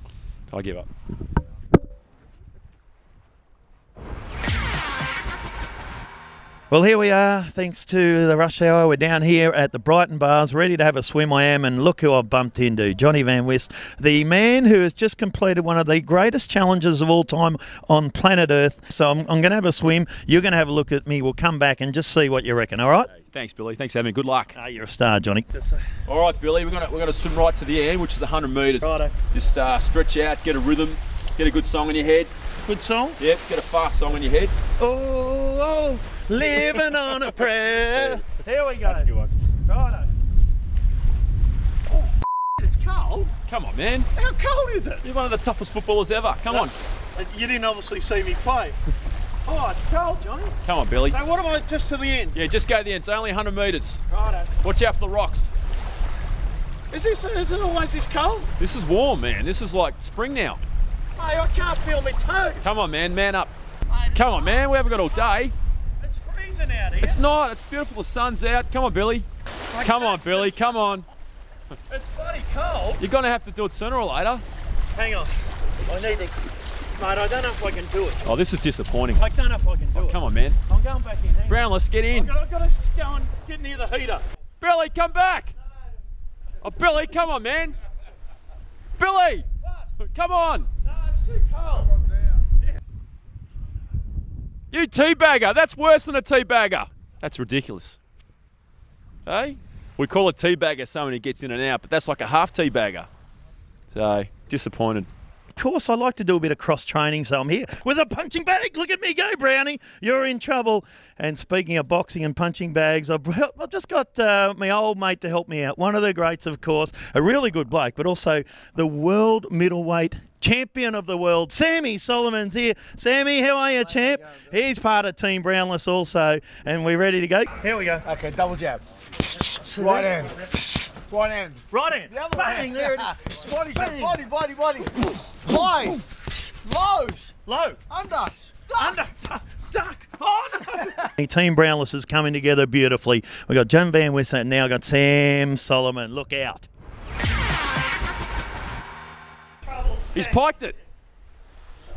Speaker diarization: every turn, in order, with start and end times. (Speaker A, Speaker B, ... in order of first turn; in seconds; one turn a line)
Speaker A: 0.5-0.9
Speaker B: 6.7-23.1
Speaker A: 23.1-24.6
Speaker B: 24.5-25.8
Speaker A: 26.1-32.3
Speaker B: 28.8-29.2
Speaker B: 32.7-33.2
Speaker A: 33.2-34.5
Speaker B: 34.8-39.1
Speaker A: 37.9-38.2
Speaker A: 38.9-39.3
Speaker B: 39.7-40.1
Speaker B: 42.0-43.3
Speaker A: 43.5-44.1
Speaker B: 44.1-45.0
Speaker A: 45.0-46.7
Speaker B: 46.5-48.8
Speaker B: 49.5-50.6
Speaker A: 50.6-51.2
Speaker B: 51.1-52.4
Speaker A: 52.3-54.0
Speaker B: 54.1-54.5
Speaker A: 54.6-55.5
Speaker B: 56.9-58.5
Speaker A: 58.6-60.6
Speaker B: 61.2-62.7
Speaker A: 62.6-63.5
Speaker B: 63.9-65.4
Speaker A: 64.1-65.5
Speaker B: 66.0-67.2
Speaker A: 67.0-69.3
Speaker B: 69.7-70.7
Speaker A: 69.8-71.1
Speaker B: 71.9-73.0
Speaker A: 73.0-74.4
Speaker B: 74.9-76.4
Speaker B: 77.0-78.2
Speaker A: 78.2-79.3
Speaker B: 79.2-84.2
Speaker A: 79.9-80.6
Speaker A: 81.5-82.3
Speaker A: 84.6-85.5
Speaker A: 86.6-87.8
Speaker A: 89.0-89.5
Speaker A: 90.0-90.7
Speaker B: 90.8-91.9
Speaker A: 94.7-98.0
Speaker A: 99.3-103.1
Speaker A: 103.9-105.1
Speaker B: 105.6-128.1
Speaker C: 128.1-128.8
Speaker C: 129.4-137.3
Speaker B: 129.8-130.3
Speaker B: 131.7-134.2
Speaker B: 137.5-137.8
Speaker C: 137.9-139.0
Speaker B: 138.7-146.7
Speaker B: 149.7-150.4
Speaker A: 150.1-150.8